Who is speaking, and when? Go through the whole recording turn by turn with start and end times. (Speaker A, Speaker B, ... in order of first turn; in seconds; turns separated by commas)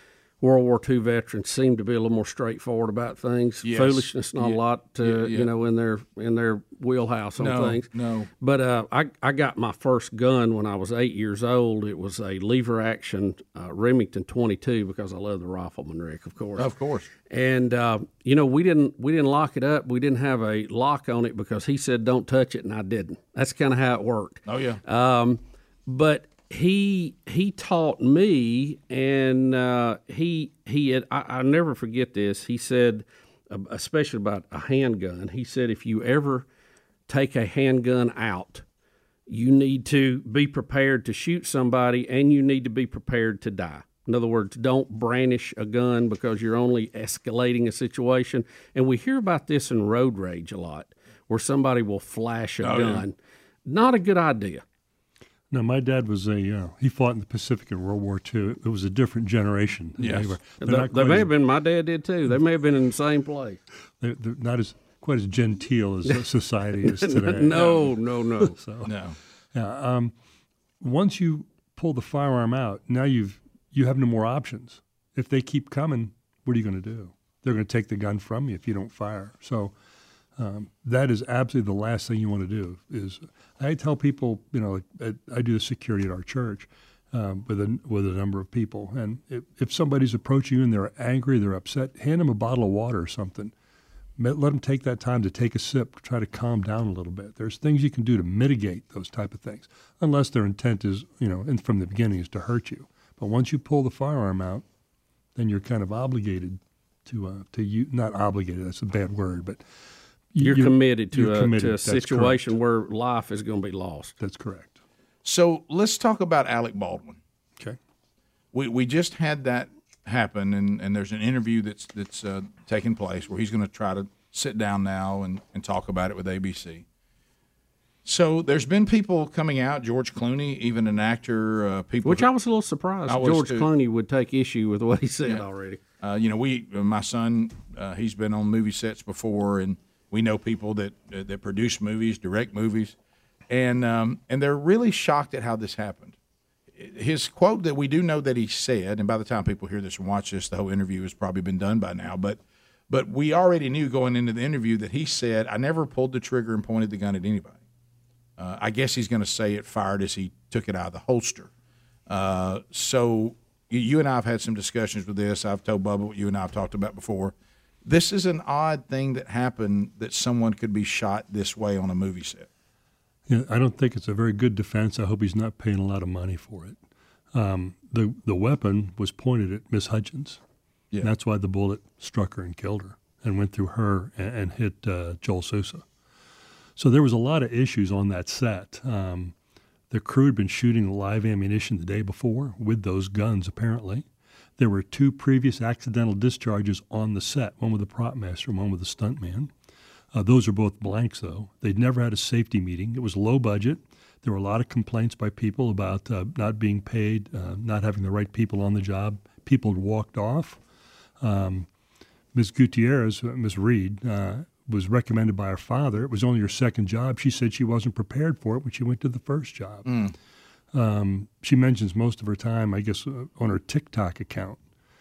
Speaker A: 0.4-7.9, Speaker B: 3.6-5.5, Speaker B: 7.4-8.3, Speaker A: 8.4-16.7, Speaker B: 16.6-17.1, Speaker A: 17.2-36.5, Speaker B: 24.5-24.8, Speaker A: 37.1-38.6, Speaker A: 39.3-54.6, Speaker B: 52.6-53.0, Speaker C: 55.5-61.3, Speaker B: 60.0-60.4, Speaker A: 60.6-63.6, Speaker C: 64.0-67.8, Speaker A: 66.8-68.5, Speaker B: 67.5-67.9, Speaker C: 68.4-68.9, Speaker B: 68.8-69.2, Speaker C: 69.5-70.1, Speaker C: 70.8-79.7, Speaker C: 80.4-93.5, Speaker C: 94.2-104.7, Speaker C: 105.3-109.6, Speaker C: 110.3-112.5, Speaker A: 110.4-114.2, Speaker C: 114.2-114.8, Speaker B: 115.2-117.2, Speaker B: 118.5-126.8, Speaker B: 128.1-132.3, Speaker A: 132.0-135.8, Speaker B: 133.1-133.7, Speaker B: 136.0-143.0, Speaker B: 143.5-146.2, Speaker B: 146.8-152.4, Speaker B: 152.9-157.6, Speaker B: 158.4-161.5, Speaker B: 162.1-167.3, Speaker B: 167.8-172.5, Speaker C: 173.3-176.8, Speaker C: 177.3-180.4, Speaker C: 181.0-185.8, Speaker C: 186.8-189.3, Speaker C: 189.9-194.1, Speaker C: 194.6-199.5, Speaker C: 200.1-210.6, Speaker C: 211.2-211.7, Speaker C: 212.3-219.9, Speaker B: 219.9-220.1, Speaker C: 220.7-224.6